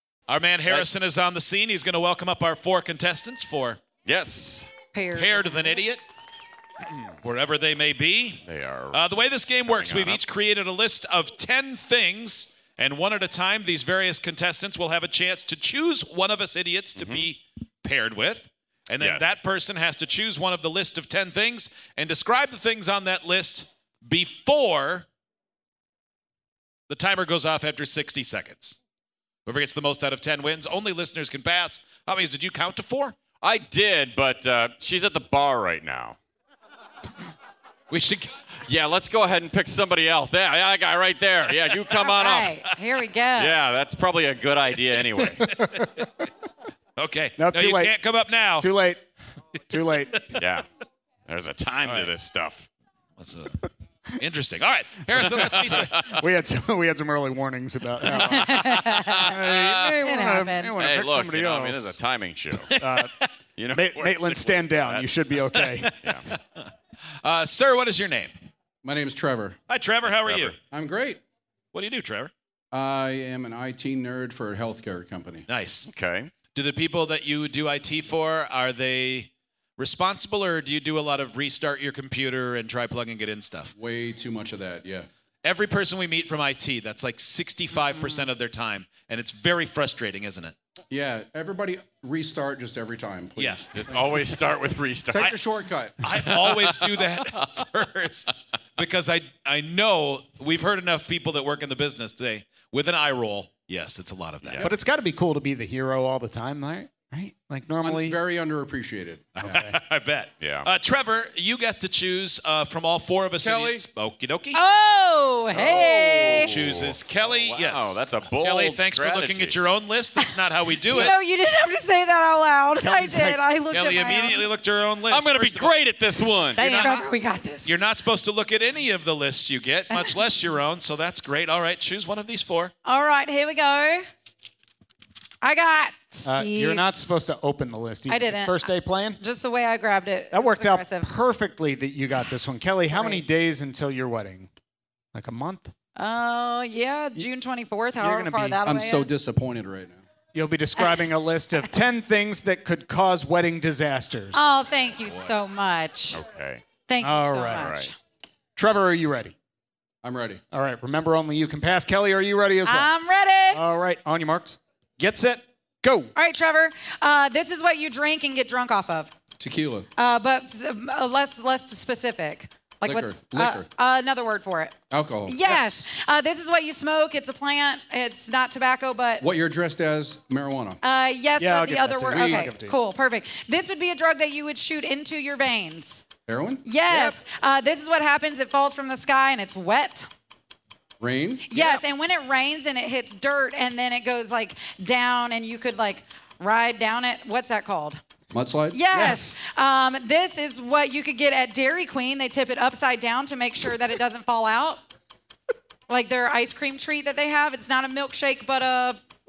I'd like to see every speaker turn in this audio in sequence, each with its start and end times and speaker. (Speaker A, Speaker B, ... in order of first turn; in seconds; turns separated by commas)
Speaker A: 0.3-3.9, Speaker B: 4.0-4.7, Speaker C: 4.9-5.8, Speaker A: 5.1-6.0, Speaker A: 7.2-25.1, Speaker B: 8.4-9.0, Speaker B: 9.7-10.2, Speaker B: 16.9-17.2, Speaker B: 19.0-19.4, Speaker A: 26.9-28.8, Speaker A: 29.4-33.2, Speaker B: 33.4-36.1, Speaker A: 37.9-38.3, Speaker B: 38.7-42.7, Speaker C: 42.0-43.5, Speaker B: 43.4-45.4, Speaker D: 45.4-46.0, Speaker A: 47.0-48.7, Speaker D: 47.4-48.0, Speaker D: 48.5-49.0, Speaker D: 49.7-50.2, Speaker A: 50.1-50.4, Speaker B: 50.4-50.6, Speaker B: 51.3-52.7, Speaker A: 51.9-52.1, Speaker A: 53.2-53.7, Speaker A: 54.2-56.2, Speaker B: 55.4-56.1, Speaker D: 56.1-62.0, Speaker C: 58.1-60.8, Speaker B: 58.5-59.9, Speaker B: 60.8-62.7, Speaker A: 62.6-63.3, Speaker D: 62.8-63.1, Speaker B: 63.6-65.1, Speaker D: 63.7-65.9, Speaker A: 65.6-66.7, Speaker A: 67.2-68.3, Speaker E: 68.8-69.6, Speaker A: 69.7-70.6, Speaker B: 70.1-70.5, Speaker E: 70.7-71.2, Speaker A: 71.7-72.3, Speaker E: 72.7-75.4, Speaker A: 75.5-75.9, Speaker B: 75.8-76.3, Speaker A: 76.5-83.7, Speaker E: 83.8-85.1, Speaker A: 85.4-90.5, Speaker E: 90.9-94.2, Speaker A: 93.4-93.8, Speaker B: 93.7-95.3, Speaker E: 95.1-96.1, Speaker A: 96.0-104.7, Speaker B: 96.2-97.0, Speaker B: 104.4-104.7, Speaker D: 104.6-108.2, Speaker E: 107.8-109.2, Speaker A: 109.3-114.6, Speaker D: 109.4-109.7, Speaker B: 110.4-110.7, Speaker E: 113.4-113.9, Speaker C: 114.5-116.6, Speaker B: 115.5-119.6, Speaker A: 116.4-121.1, Speaker C: 120.2-124.5, Speaker D: 122.8-123.4, Speaker A: 123.7-125.7, Speaker B: 125.1-126.7, Speaker A: 126.5-127.1, Speaker C: 126.6-127.7, Speaker A: 127.7-132.7, Speaker C: 132.8-134.1, Speaker C: 135.4-137.1, Speaker D: 136.2-139.2, Speaker C: 138.1-141.1, Speaker D: 140.3-144.5, Speaker C: 142.9-143.2, Speaker D: 145.1-145.7, Speaker C: 145.9-149.1, Speaker D: 148.0-148.6, Speaker E: 148.6-150.0, Speaker D: 150.3-154.5, Speaker C: 150.8-151.1, Speaker C: 154.3-156.2, Speaker B: 156.1-156.6, Speaker C: 156.9-157.9, Speaker D: 157.0-157.7, Speaker B: 157.6-157.9, Speaker D: 158.6-159.3, Speaker E: 160.0-160.4, Speaker D: 160.5-162.9, Speaker C: 162.6-163.6, Speaker D: 163.5-166.1, Speaker C: 166.1-169.1, Speaker E: 169.4-169.9, Speaker C: 170.0-179.3, Speaker E: 172.8-173.7, Speaker E: 174.9-175.4, Speaker D: 175.4-175.9, Speaker E: 179.2-180.8, Speaker C: 180.8-186.0, Speaker D: 181.4-182.8, Speaker E: 186.3-186.6, Speaker C: 186.6-190.1, Speaker D: 186.9-187.2, Speaker E: 191.0-191.4, Speaker C: 191.5-198.0, Speaker D: 191.5-191.8, Speaker E: 198.3-198.8, Speaker C: 198.7-204.8, Speaker D: 198.9-199.4, Speaker C: 205.9-209.0